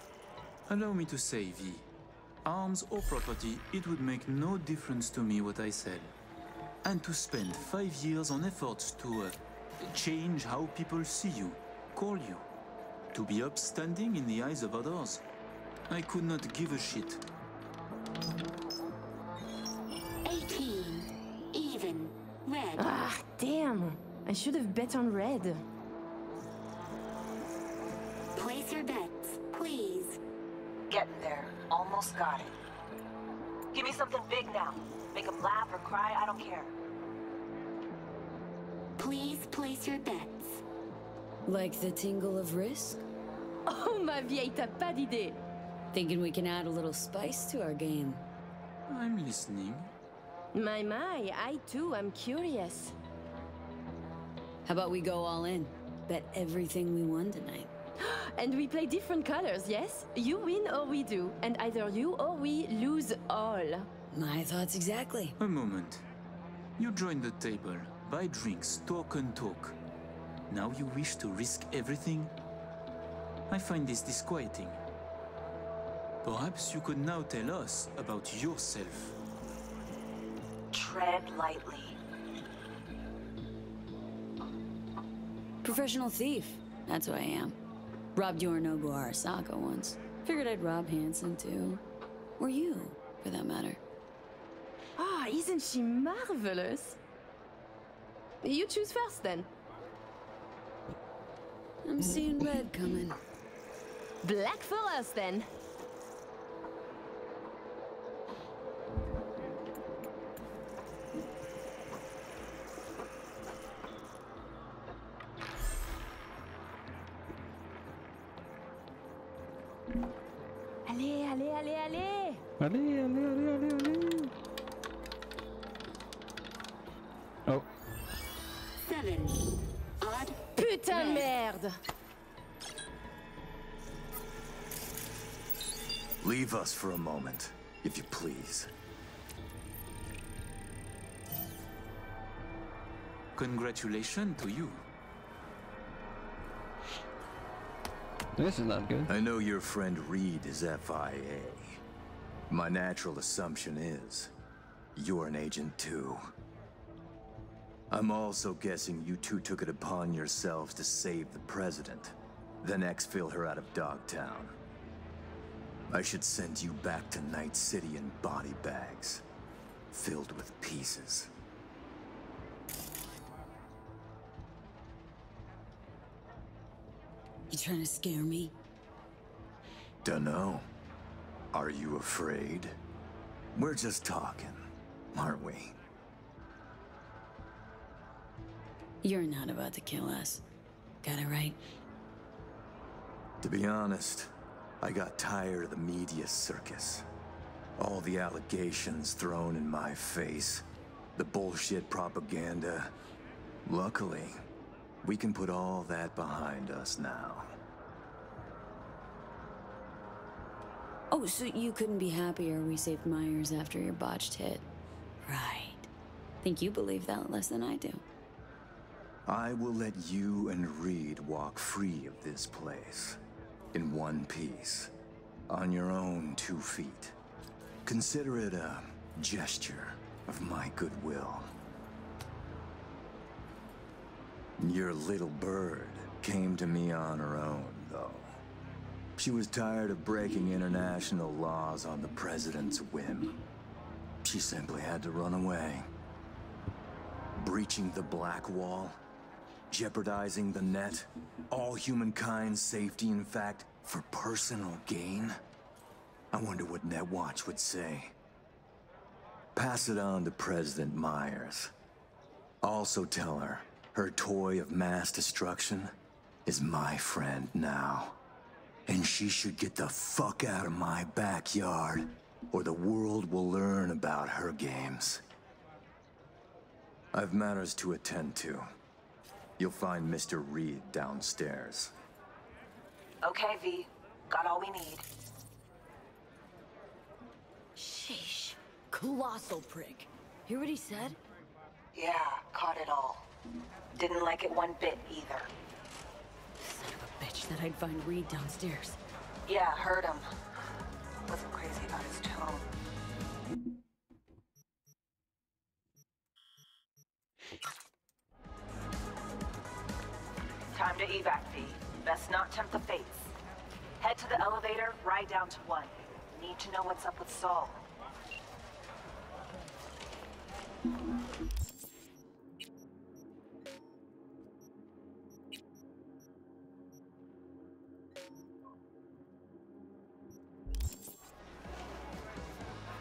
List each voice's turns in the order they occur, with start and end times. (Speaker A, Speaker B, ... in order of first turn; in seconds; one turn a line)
Speaker A: 0.7-1.9
Speaker A: 2.4-6.1
Speaker A: 6.8-12.4
Speaker A: 13.1-15.2
Speaker A: 15.9-17.2
Speaker B: 20.3-21.0
Speaker C: 20.6-21.0
Speaker B: 21.6-22.7
Speaker D: 22.8-25.6
Speaker B: 28.4-30.2
Speaker C: 30.9-32.5
Speaker C: 33.7-36.7
Speaker B: 39.0-40.4
Speaker E: 41.4-43.0
Speaker D: 43.6-45.4
Speaker E: 45.9-48.2
Speaker A: 48.9-49.9
Speaker D: 50.5-52.9
Speaker E: 54.6-57.7
Speaker D: 58.0-63.9
Speaker E: 64.1-65.3
Speaker A: 65.4-66.0
Speaker A: 66.8-69.8
Speaker A: 70.5-72.3
Speaker A: 73.5-74.8
Speaker A: 76.2-79.2
Speaker C: 80.7-82.0
Speaker E: 85.6-87.5
Speaker E: 88.1-91.8
Speaker E: 92.4-93.8
Speaker D: 95.0-97.0
Speaker D: 98.4-99.5
Speaker E: 101.8-103.2
Speaker D: 104.2-105.5
Speaker D: 120.9-122.4
Speaker F: 122.6-124.3
Speaker B: 128.9-129.2
Speaker D: 130.6-131.8
Speaker G: 136.2-138.7
Speaker A: 143.3-144.8
Speaker F: 148.3-149.1
Speaker G: 149.1-151.8
Speaker G: 152.5-154.3
Speaker G: 154.9-156.3
Speaker G: 157.9-164.5
Speaker G: 165.9-169.2
Speaker G: 169.9-171.3
Speaker E: 177.5-178.5
Speaker G: 180.0-180.6
Speaker G: 181.5-182.7
Speaker G: 183.5-184.6
Speaker G: 185.1-185.7
Speaker E: 189.0-190.4
Speaker E: 191.0-191.6
Speaker G: 193.4-197.0
Speaker G: 197.8-200.6
Speaker G: 201.2-202.9
Speaker G: 203.7-204.4
Speaker G: 205.0-207.5
Speaker E: 211.1-214.7
Speaker E: 215.2-215.9
Speaker E: 216.4-218.0
Speaker G: 219.2-223.2
Speaker G: 223.7-224.9
Speaker G: 225.5-227.1
Speaker G: 227.8-231.5
Speaker G: 234.6-238.3
Speaker G: 239.2-243.3
Speaker G: 244.2-245.8
Speaker G: 247.4-249.0
Speaker G: 249.7-255.4
Speaker G: 256.3-258.1
Speaker G: 259.5-261.7
Speaker G: 262.6-265.9
Speaker G: 266.4-268.2
Speaker G: 268.9-275.2
Speaker G: 277.1-278.7
Speaker G: 279.6-281.9
Speaker C: 283.2-285.0
Speaker E: 287.8-291.2
Speaker C: 291.9-293.3
Speaker C: 293.9-295.5
Speaker E: 296.6-299.0
Speaker C: 299.4-300.3
Speaker C: 301.3-302.6
Speaker C: 310.7-313.3
Speaker C: 314.0-317.8